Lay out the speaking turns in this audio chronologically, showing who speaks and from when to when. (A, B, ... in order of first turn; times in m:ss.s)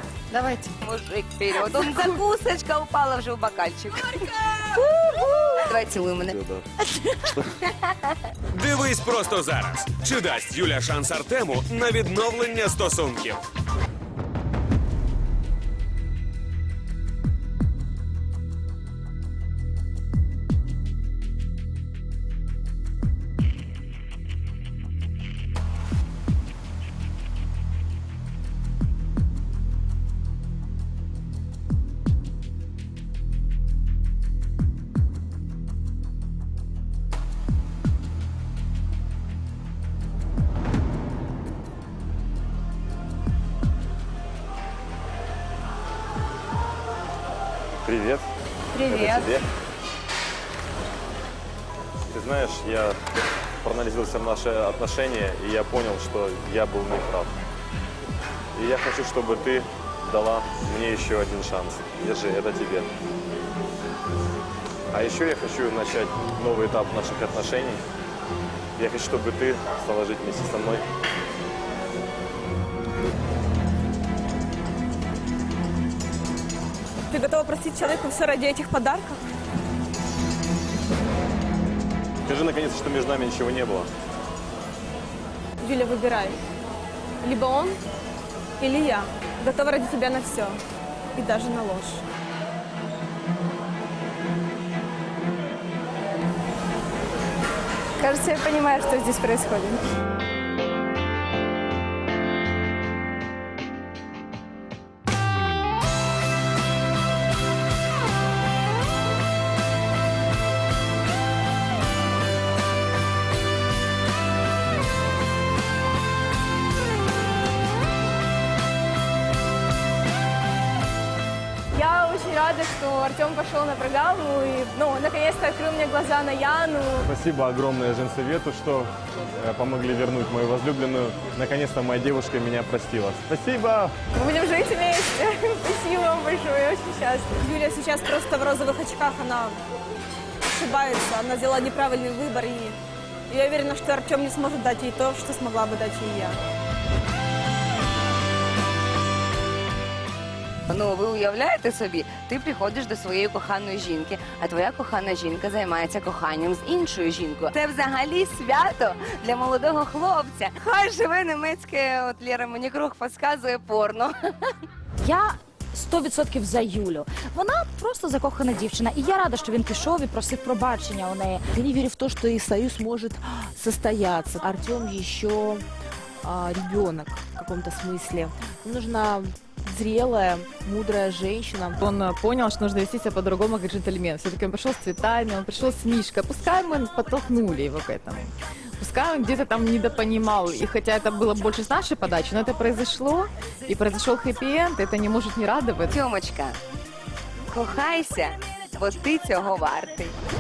0:00.3-0:00.7 A
0:00.8-0:04.8 B
0:05.6-0:06.6 B
0:08.5-0:13.4 C
0:47.9-0:48.2 D
0:48.7-0:49.3 E
0:48.9-0:49.4 D
0:52.1-0:52.9 D
0:53.6-0:57.3 D
0:58.6-1:02.9 D
1:04.9-1:07.8 D
1:08.8-1:10.8 D
1:17.1-1:19.2 E
1:22.3-1:23.8 D
1:25.6-1:26.4 E
1:27.2-1:27.8 E
1:28.6-1:30.6 E
1:31.2-1:32.0 E
1:38.0-1:39.8 E
2:01.7-2:07.1 E
2:07.1-2:08.9 D
2:09.4-2:13.9 D
2:14.1-2:19.6 E
2:20.5-2:22.8 E
2:23.3-2:26.4 E
2:30.7-2:44.1 B
2:45.0-2:51.5 F
2:51.5-2:55.6 G
2:56.2-3:01.8 G
3:01.8-3:16.0 A
3:15.9-3:16.6 B
3:17.5-3:20.2 B